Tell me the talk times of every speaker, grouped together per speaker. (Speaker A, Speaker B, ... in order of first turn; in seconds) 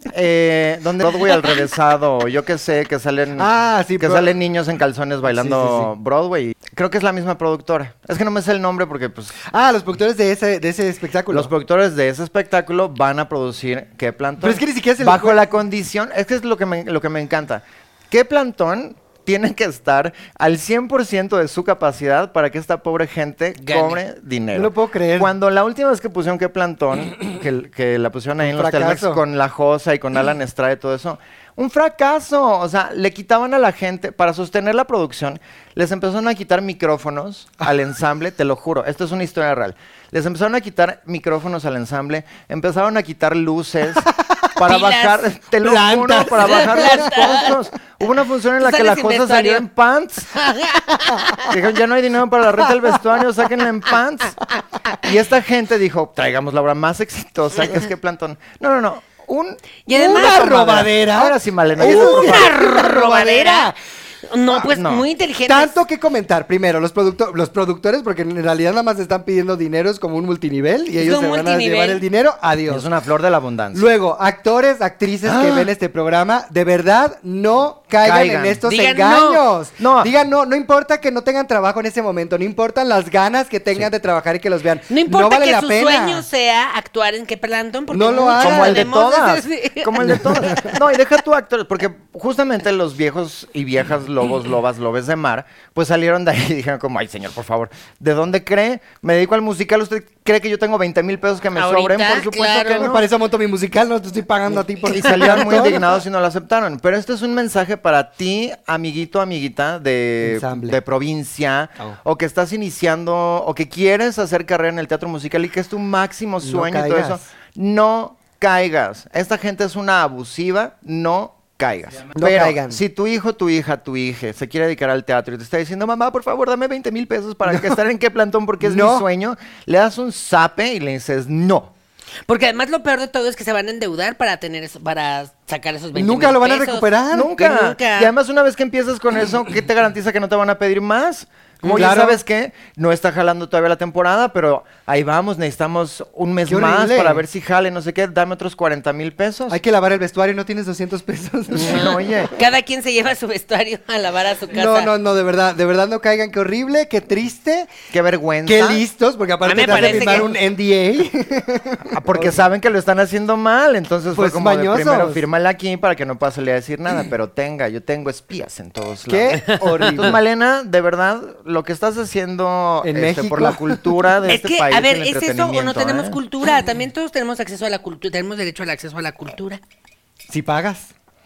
Speaker A: 0.1-9.4, 11.3-50.4, 51.4-62.6, 64.7-65.0, 72.7-73.8, 75.2-75.7, 78.0-78.6, 79.8-80.1, 88.3-103.0, 104.8-131.7, 137.1-149.6, 151.5-152.3, 157.9-158.8, 159.6-160.2, 161.9-176.2
Speaker B: 3.4-4.3, 5.2-5.9, 9.4-11.5, 14.4-15.4, 24.5-25.3, 28.4-29.2, 44.2-44.5, 45.6-47.1, 59.9-63.7, 65.5-72.9, 73.7-86.2, 87.9-88.9, 90.3-90.8, 102.8-105.9, 110.2-110.8, 116.4-117.2, 122.1-122.8, 127.5-127.8, 128.6-129.1, 135.9-137.3, 141.7-142.2, 146.5-147.2, 149.5-152.0, 154.5-157.7, 158.4-162.4, 164.1-165.2, 169.1-170.2, 172.8-174.0, 180.3-180.9
Speaker C: 23.6-24.0, 44.6-45.2, 46.3-47.5, 48.6-49.6, 50.3-51.5, 59.9-60.6, 61.8-65.8, 71.0-72.0, 78.7-79.4, 84.9-90.5, 101.5-103.0, 132.3-138.1, 151.6-154.9, 159.4-160.3, 174.2-179.6